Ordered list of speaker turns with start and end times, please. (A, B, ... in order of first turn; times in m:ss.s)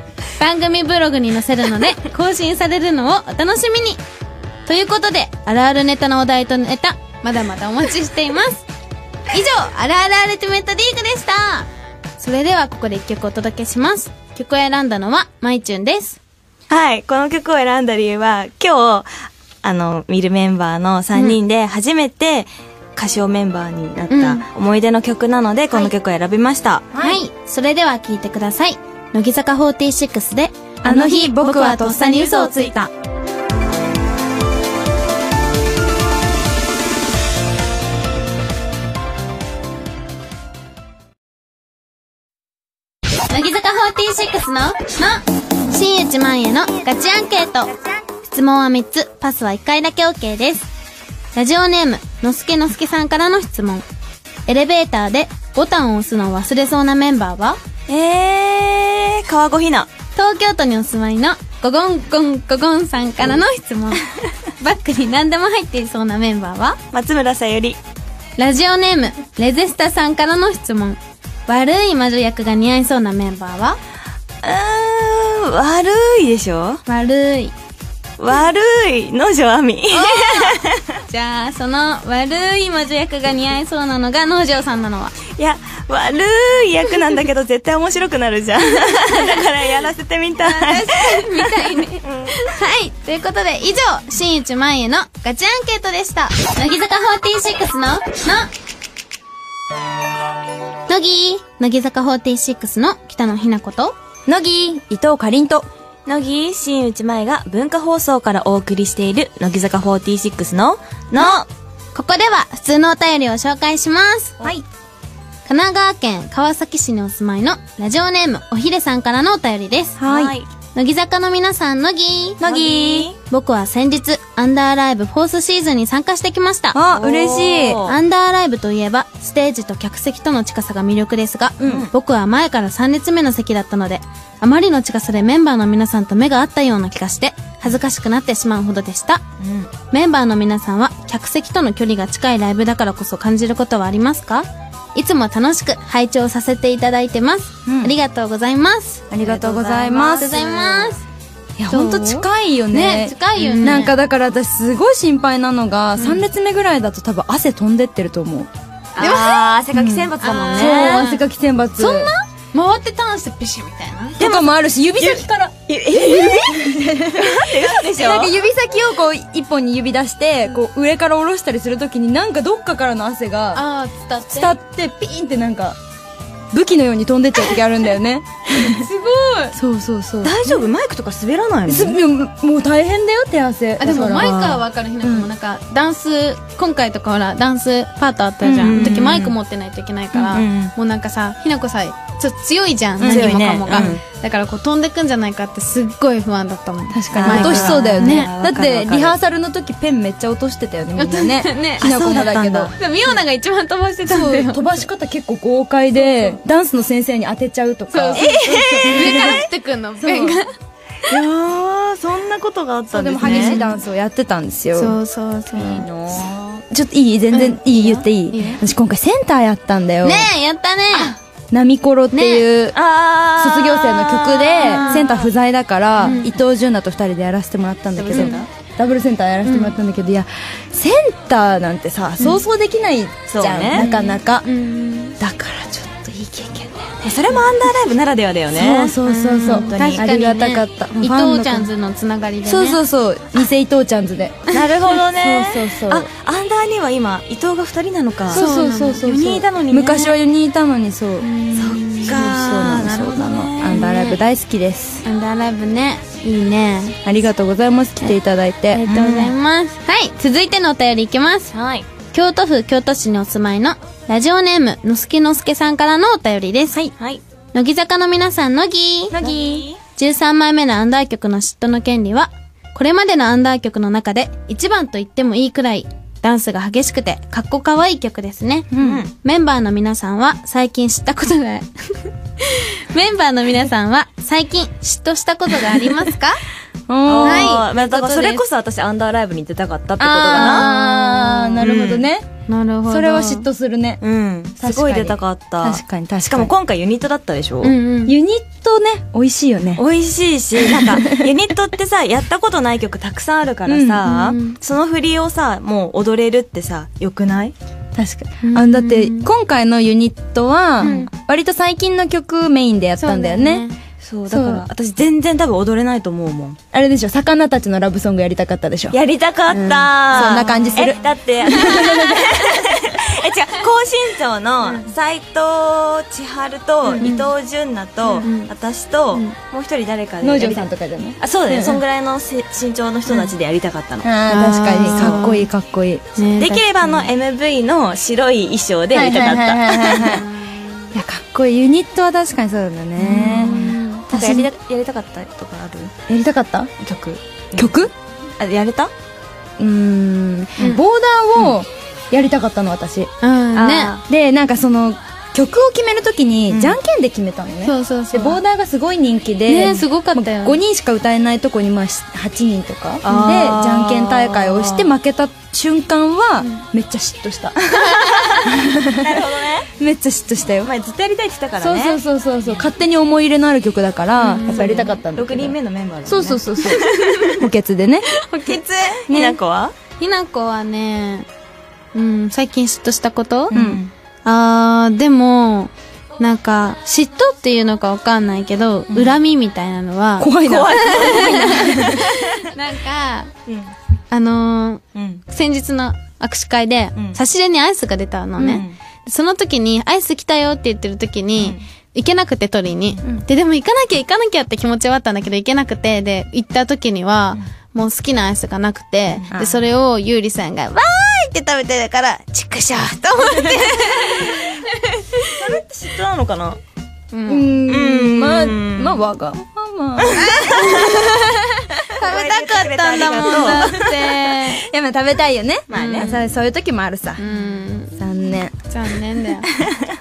0:00.4-0:04.0 A
0:04.7-0:08.6 A
0:09.3-0:11.7 A
0:12.2-0:16.2 A
0:16.7-0:19.1 B
0:19.6-0:26.9 B
0:24.1-0:24.5 A
0:26.9-0:27.2 C
0:27.0-0:32.9 A
0:30.8-0:32.8 C
0:43.3-0:47.7 A
0:48.2-0:50.7 A
0:51.4-0:53.8 A
0:54.5-0:57.6 A
0:57.9-0:59.9 B
1:00.2-1:04.0 A
1:04.6-1:06.8 A
1:06.9-1:07.8 B
1:08.4-1:13.8 A
1:14.4-1:16.8 B
1:16.9-1:17.5 A
1:18.2-1:21.0 B
1:19.9-1:25.2 A
1:25.3-1:31.3 B
1:30.4-1:38.5 A
1:32.0-1:32.5 B
1:40.9-1:44.0 A
1:44.3-1:45.7 C
1:46.1-1:51.5 B
1:51.9-1:54.4 A
1:55.5-2:00.0 A
2:00.0-2:00.4 C
2:00.1-2:00.5 B
2:00.7-2:02.6 A
2:02.4-2:03.2 B
2:02.4-2:03.1 C
2:03.2-2:06.8 A
2:06.7-2:07.8 C
2:06.9-2:08.0 B
2:07.9-2:19.2 A
2:11.6-2:11.9 C
2:11.6-2:11.9 B
2:19.4-2:19.7 B
2:19.9-2:31.0 A
2:27.7-2:27.9 C
2:29.1-2:30.4 C
2:29.2-2:30.9 B
2:31.6-2:38.5 C
2:31.7-2:34.0 A
2:33.4-2:33.9 B
2:36.0-2:36.2 A
2:39.0-2:41.1 B
2:39.0-2:39.5 A
2:39.7-2:42.1 C
2:40.2-2:41.2 A
2:41.8-2:44.2 A
2:44.2-2:53.6 C
2:44.2-2:46.6 B
2:47.2-2:48.4 B
2:53.5-2:54.6 A
2:54.3-2:55.8 C
2:56.5-2:58.9 C
2:58.7-2:59.6 A
2:59.5-3:00.5 C
3:00.2-3:02.0 B
3:01.7-3:05.3 C
3:03.8-3:18.3 A
3:08.4-3:09.0 C
3:08.6-3:09.4 B
3:10.1-3:10.7 B
3:13.0-3:14.0 C
3:13.0-3:14.0 B
3:16.9-3:22.7 C
3:17.1-3:19.2 B
3:21.0-3:22.2 A
3:21.8-3:22.8 B
3:22.8-3:24.6 A
3:24.1-3:30.4 C
3:26.0-3:26.4 A
3:27.9-3:30.5 A
3:28.2-3:29.5 B
3:31.1-3:33.6 B
3:32.9-3:35.0 C
3:33.2-3:33.8 A
3:34.8-3:35.9 A
3:35.6-3:36.6 B
3:36.7-3:40.3 C
3:37.3-3:38.6 A
3:40.0-3:41.2 A
3:41.5-3:42.8 C
3:42.1-3:42.5 A
3:42.7-3:45.3 B
3:43.4-3:54.5 C
3:44.6-3:45.1 A
3:46.0-3:46.3 A
3:48.0-3:48.5 B
3:48.1-3:48.4 A
3:49.4-3:49.8 A
3:53.3-3:53.9 B
3:53.8-3:55.2 A
3:55.2-3:57.0 C
3:57.0-4:00.0 B
3:58.5-4:01.7 C
3:59.0-4:02.8 A
4:02.4-4:04.4 C
4:04.5-4:08.4 B
4:05.0-4:06.1 C
4:08.3-4:15.0 C
4:08.3-4:10.0 A
4:09.1-4:10.1 B
4:11.2-4:12.8 A
4:11.6-4:14.2 B
4:13.7-4:14.1 A
4:15.0-4:17.0 A
4:17.0-4:18.9 C
4:18.7-4:21.5 A
4:18.9-4:19.4 B
4:21.5-4:21.9 B
4:22.1-4:26.8 A
4:27.5-4:29.2 A
4:29.1-4:29.7 C
4:29.2-4:29.8 B
4:30.0-4:38.7 A
4:38.7-4:39.0 C
4:38.8-4:39.1 B
4:39.2-4:46.4 A
4:46.9-4:47.6 C
4:47.1-4:50.7 B
4:47.2-4:48.4 A
4:50.0-4:52.3 C
4:50.0-4:51.7 A
4:51.6-4:52.1 B
4:52.5-4:53.5 A
4:52.9-4:54.0 C
4:54.0-4:57.8 B
4:54.6-4:56.5 C
4:57.6-4:58.2 A
4:58.1-4:59.8 C
4:59.8-5:07.5 B
5:00.6-5:01.3 C
5:03.7-5:04.1 C
5:04.0-5:04.6 A
5:08.0-5:13.7 C
5:08.4-5:09.3 A
5:10.8-5:11.1 A
5:13.0-5:13.8 A
5:14.0-5:16.6 B
5:14.3-5:14.6 C
5:16.7-5:19.0 C
5:18.9-5:30.7 B
5:19.5-5:22.4 C
5:20.2-5:22.1 A
5:24.6-5:24.9 A
5:27.0-5:27.3 A
5:28.2-5:28.5 A
5:30.2-5:31.8 C
5:31.2-5:34.1 B
5:34.0-5:36.2 C
5:34.3-5:35.5 A
5:34.9-5:35.2 B
5:36.2-5:37.0 A
5:36.4-5:40.2 B
5:38.9-5:40.3 C
5:39.8-5:40.6 A
5:40.9-5:44.5 C
5:43.0-5:46.0 B
5:43.2-5:44.1 A
5:46.1-5:46.7 C
5:46.8-5:47.7 B
5:47.6-5:47.9 C
5:48.4-5:48.9 B
5:49.6-5:53.1 C
5:53.2-5:54.0 A
5:53.6-5:54.0 B
5:54.1-6:10.7 C
5:56.5-5:56.8 B
5:57.6-5:58.4 A
5:59.5-6:00.6 A
6:03.0-6:04.9 B
6:03.1-6:03.4 A
6:07.7-6:08.6 A
6:08.2-6:09.7 B
6:10.6-6:12.0 B
6:11.6-6:18.1 C
6:14.2-6:15.0 A
6:14.4-6:17.4 B
6:16.8-6:17.4 A
6:18.1-6:19.0 A
6:19.0-6:19.8 B
6:19.1-6:19.4 C
6:20.0-6:21.3 A
6:21.9-6:23.5 A
6:23.5-6:23.9 B
6:23.5-6:23.8 C
6:24.2-6:33.3 A
6:28.9-6:29.2 B
6:30.2-6:32.1 C
6:30.4-6:32.2 B
6:33.5-6:33.7 B
6:34.1-6:55.5 A
6:35.0-6:35.2 B
6:38.4-6:38.8 B
6:49.3-6:49.6 C
6:53.7-6:54.4 B
6:55.2-6:56.6 B
6:57.1-6:57.6 A
6:57.3-7:01.1 C
6:57.7-6:59.0 B
7:00.0-7:00.9 B
7:00.1-7:04.7 A
7:02.0-7:03.9 B
7:03.2-7:07.2 C
7:05.7-7:06.2 B
7:05.7-7:06.2 A
7:07.2-7:08.0 A
7:08.0-7:08.5 C
7:08.7-7:09.5 A